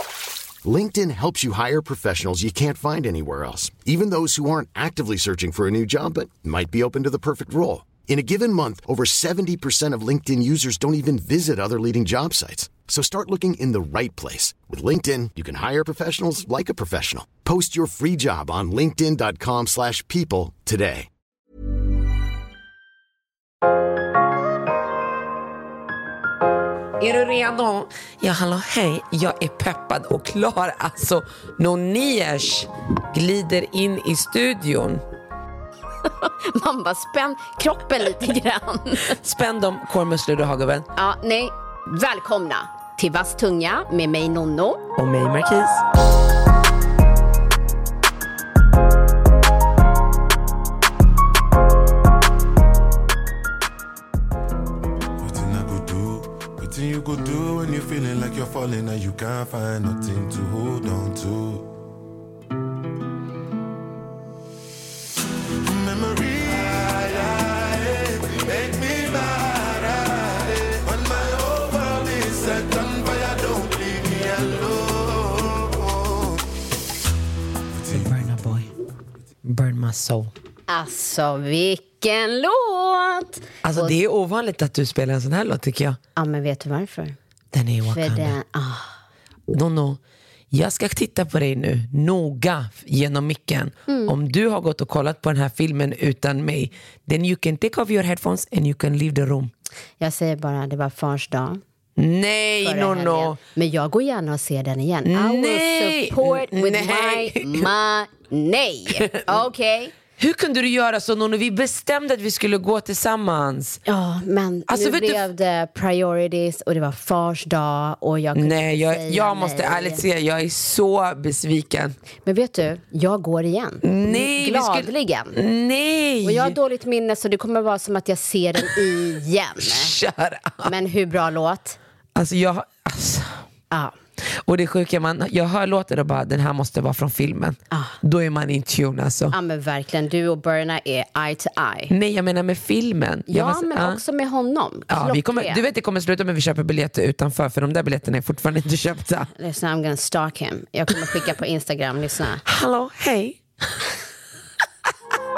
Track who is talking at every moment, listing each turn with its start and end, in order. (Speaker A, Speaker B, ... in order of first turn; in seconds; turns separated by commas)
Speaker A: 0.6-21.1, Speaker B: 27.0-35.0, Speaker C: 36.2-39.1, Speaker B: 39.1-40.9, Speaker C: 41.0-44.8, Speaker B: 45.0-45.8, Speaker D: 55.2-61.7, Speaker D: 65.6-76.4, Speaker D: 77.7-78.7, Speaker B: 77.9-78.7, Speaker B: 79.5-80.3, Speaker C: 80.7-84.0, Speaker B: 83.6-86.0, Speaker C: 86.2-87.2, Speaker B: 87.5-88.4, Speaker C: 87.9-89.0, Speaker B: 89.5-90.0, Speaker B: 90.5-99.5, Speaker C: 93.9-94.1, Speaker C: 100.0-101.6, Speaker B: 102.0-103.4, Speaker C: 102.6-109.9, Speaker B: 105.1-107.7, Speaker B: 109.0-109.2, Speaker B: 110.2-113.8, Speaker C: 113.9-120.0, Speaker B: 114.7-115.2, Speaker B: 118.3-122.0, Speaker C: 122.2-125.4, Speaker B: 123.8-126.6, Speaker C: 126.2-129.9, Speaker B: 129.6-130.7, Speaker C: 130.6-131.8, Speaker B: 132.2-133.4, Speaker B: 134.4-139.3, Speaker C: 137.7-138.0, Speaker C: 139.3-141.9, Speaker B: 141.9-144.0, Speaker C: 143.3-145.6, Speaker B: 144.9-149.3, Speaker C: 149.3-152.4, Speaker B: 152.4-153.8